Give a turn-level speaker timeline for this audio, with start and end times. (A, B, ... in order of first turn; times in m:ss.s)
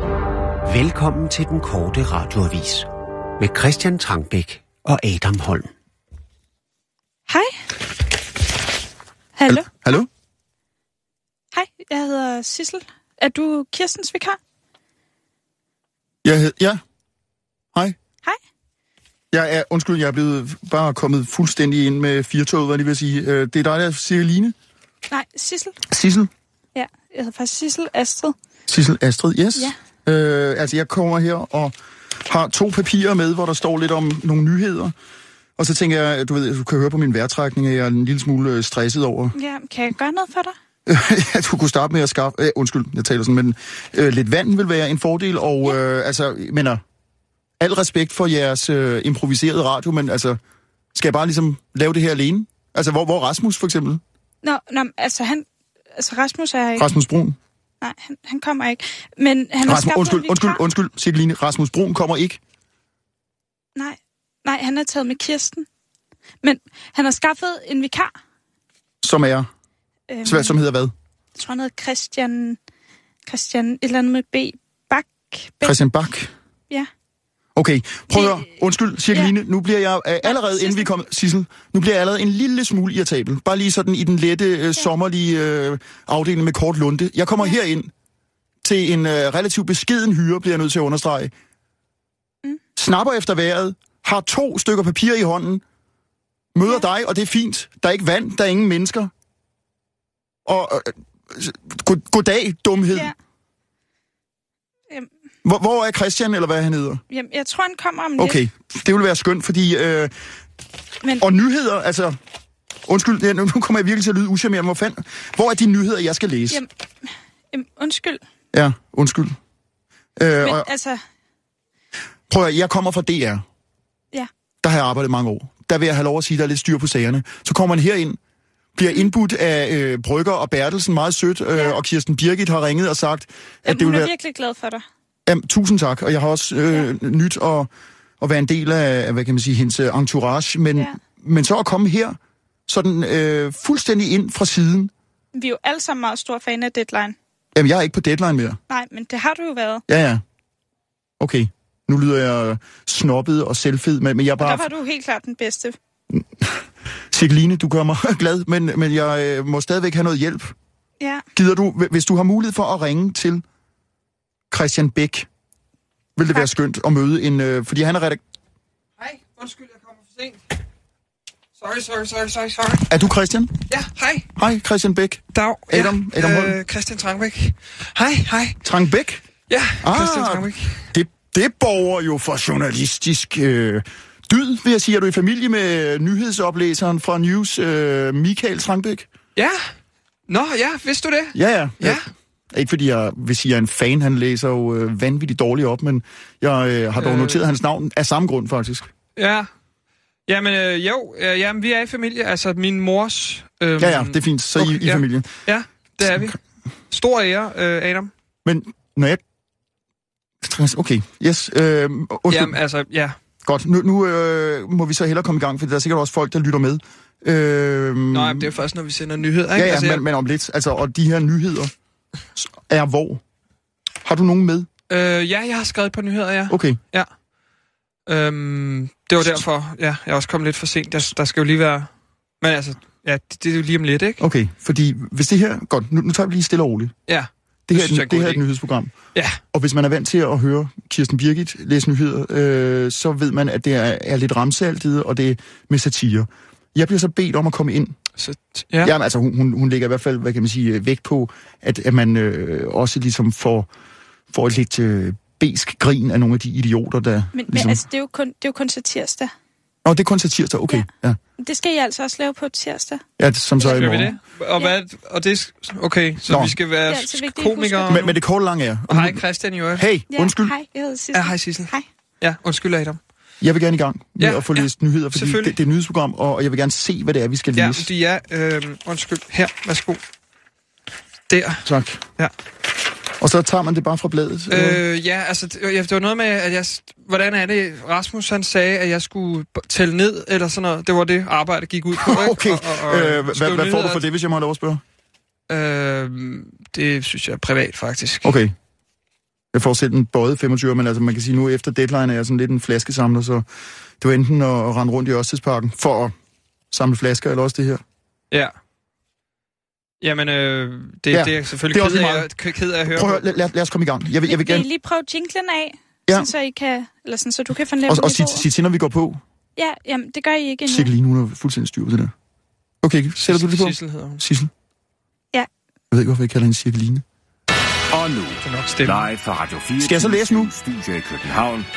0:00.6-0:02.9 A
0:03.4-0:05.7 A
0:07.3-0:07.6 B
0:09.4-0:09.7 B
0:09.5-0:10.1 C
0:11.5-0:14.4 B
0:16.2-0:16.8 C
0:19.3-0:24.5 C
0:25.1-0:25.7 B
0:25.9-0:26.3 C
0:26.7-0:28.3 B
0:28.7-0:31.7 C
0:32.2-0:34.9 C
0:35.6-0:39.3 C
0:39.3-0:40.5 B
0:40.8-0:46.8 C
0:47.6-0:50.4 C
0:50.9-0:54.0 C
0:54.4-0:56.9 B
0:56.8-0:57.4 C
0:57.8-1:00.6 B
0:59.6-1:02.4 C
1:03.8-1:05.6 B
1:06.4-1:08.1 B
1:09.0-1:09.5 C
1:10.1-1:10.6 B
1:10.2-1:10.9 C
1:11.4-1:12.6 B
1:13.3-1:15.8 B
1:15.6-1:16.3 C
1:17.6-1:27.9 C
1:18.1-1:18.5 B
1:20.2-1:20.9 B
1:28.6-1:31.3 C
1:32.8-1:35.6 C
1:36.5-1:39.1 C
1:40.4-1:43.1 C
1:45.4-1:47.0 C
1:47.1-1:48.4 B
1:48.2-1:50.1 C
1:51.2-1:52.2 C
1:52.8-1:56.6 C
1:57.5-1:58.2 B
1:58.5-1:59.4 C
2:00.2-2:00.7 C
2:00.4-2:01.0 B
2:02.3-2:03.4 C
2:04.6-2:08.2 C
2:08.8-2:14.1 C
2:13.6-2:14.8 B
2:15.2-2:24.9 C
2:25.3-2:27.2 B
2:27.5-2:28.6 C
2:28.7-2:29.8 B
2:29.9-2:30.2 C
2:31.2-2:34.7 C
2:34.4-2:35.8 B
2:36.1-2:40.5 C
2:41.3-2:43.4 C
2:44.5-2:45.3 C
2:46.2-2:48.2 C
2:49.0-2:50.4 D
2:51.6-2:52.9 D
2:52.9-2:53.6 C
2:53.7-2:54.3 D
2:54.4-2:56.6 C
2:55.3-2:58.6 D
2:58.6-2:59.2 C
2:59.5-3:00.8 D
2:59.8-3:09.1 C
3:10.3-3:12.1 D
3:11.3-3:18.9 C
3:17.0-3:17.4 D
3:19.2-3:19.5 D
3:20.3-3:26.4 D
3:23.8-3:25.3 C
3:26.9-3:28.1 D
3:28.4-3:29.2 C
3:30.4-3:32.6 C
3:32.3-3:33.1 D
3:33.4-3:38.5 C
3:38.1-3:40.0 D
3:39.5-3:41.7 C
3:42.4-3:43.2 C
3:44.0-3:44.7 C
3:44.9-3:47.1 D
3:46.5-3:46.8 C
3:48.1-3:51.9 D
3:52.4-3:54.2 D
3:54.2-3:56.9 C
3:57.1-3:58.4 D
3:57.7-3:58.9 C
3:59.5-4:08.0 C
4:08.2-4:08.9 D
4:08.8-4:13.7 C
4:14.3-4:17.8 C
4:17.3-4:19.3 B
4:19.8-4:21.2 C
4:21.4-4:23.0 B
4:23.2-4:24.1 C
4:23.6-4:24.7 B
4:23.8-4:28.2 D
4:26.3-4:26.6 C
4:26.9-4:28.0 B
4:27.9-4:29.2 C
4:28.9-4:29.9 D
4:29.7-4:30.5 C
4:30.1-4:31.8 B
4:31.1-4:33.0 D
4:33.4-4:37.9 C
4:34.2-4:35.6 D
4:37.5-4:40.0 D
4:41.3-4:41.6 D
4:41.6-4:42.0 C
4:43.2-4:44.8 C
4:44.5-4:54.0 D
4:52.0-4:54.8 C
4:55.5-4:58.3 D
4:58.2-4:58.5 C
4:59.5-5:03.4 C
5:04.0-5:06.1 C
5:06.7-5:07.8 C
5:10.0-5:13.3 D
5:11.1-5:12.3 C
5:12.9-5:14.7 C
5:14.3-5:18.4 B
5:17.9-5:19.2 C
5:19.6-5:20.9 B
5:20.7-5:22.1 C
5:22.8-5:24.5 C
5:23.3-5:24.2 D
5:25.9-5:27.0 C
5:27.9-5:31.7 E
5:28.4-5:29.1 D
5:29.8-5:30.5 C